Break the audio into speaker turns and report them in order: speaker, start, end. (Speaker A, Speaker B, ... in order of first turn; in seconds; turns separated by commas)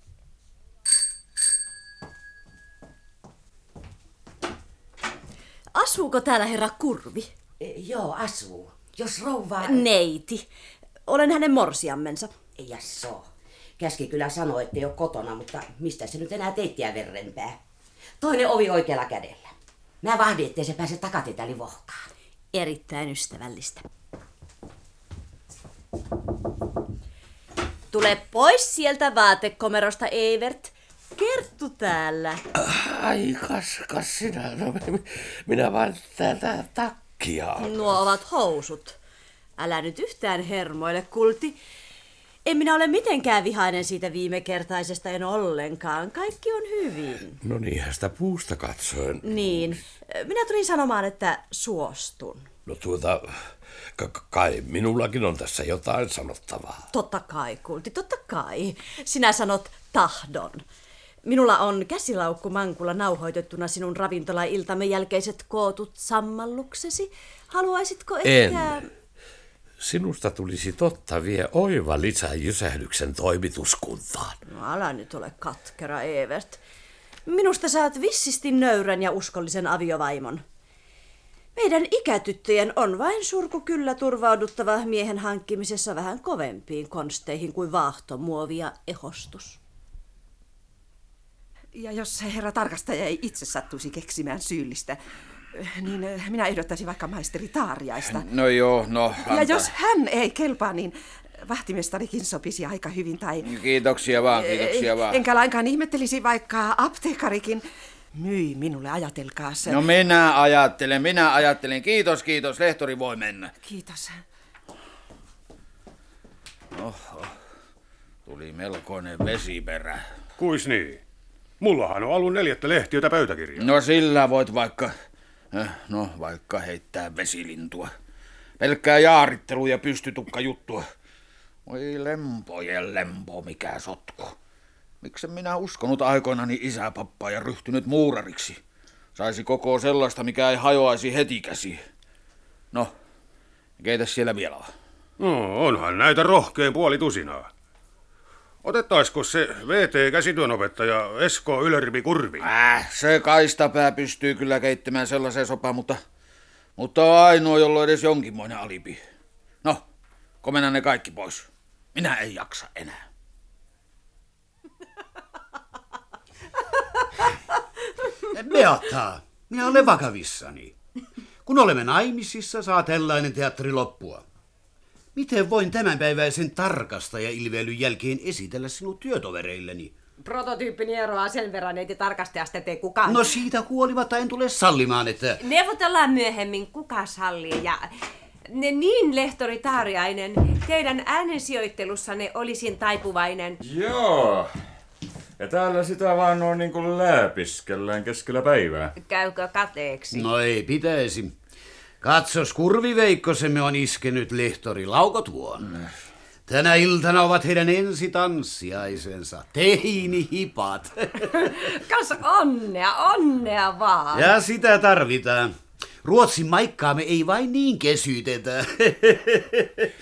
Speaker A: 5.7-7.3, Speaker B: 7.6-9.8, Speaker A: 9.6-10.5, Speaker A: 11.1-12.4, Speaker B: 12.5-17.6, Speaker B: 18.2-22.1, Speaker A: 22.5-23.9, Speaker A: 27.9-32.4, Speaker C: 32.7-37.8, Speaker A: 37.6-39.0, Speaker A: 39.6-41.6, Speaker A: 42.4-47.4, Speaker C: 47.4-49.4, Speaker A: 49.2-52.5, Speaker C: 52.6-56.8, Speaker A: 56.9-60.6, Speaker A: 61.2-68.9, Speaker C: 68.2-68.7, Speaker C: 69.8-74.4, Speaker A: 74.5-76.6, Speaker A: 77.3-80.4, Speaker A: 81.5-89.6, Speaker D: 91.7-95.0, Speaker D: 95.5-98.3, Speaker E: 98.0-99.7, Speaker D: 99.1-109.8, Speaker E: 103.4-105.2, Speaker E: 109.6-113.5, Speaker D: 113.6-114.2, Speaker E: 116.7-117.4, Speaker E: 118.2-120.1, Speaker F: 120.4-121.0, Speaker F: 121.6-123.7, Speaker E: 123.6-124.9, Speaker E: 125.5-127.9, Speaker E: 128.6-130.8, Speaker E: 131.7-134.3, Speaker E: 135.0-138.6, Speaker E: 139.1-141.8, Speaker E: 143.8-144.7, Speaker F: 145.2-147.5, Speaker F: 148.6-152.5, Speaker E: 152.4-156.0, Speaker E: 156.8-159.0, Speaker E: 160.4-163.0, Speaker G: 168.3-170.8, Speaker G: 171.4-174.2, Speaker G: 175.1-179.9, Speaker H: 180.2-183.3, Speaker G: 183.0-185.4, Speaker H: 185.4-188.0, Speaker H: 188.5-193.6, Speaker I: 193.6-194.5, Speaker I: 195.4-198.9, Speaker H: 199.0-200.3, Speaker G: 200.1-201.3, Speaker G: 202.0-205.7, Speaker G: 206.5-211.2, Speaker H: 211.3-214.3, Speaker G: 214.1-219.9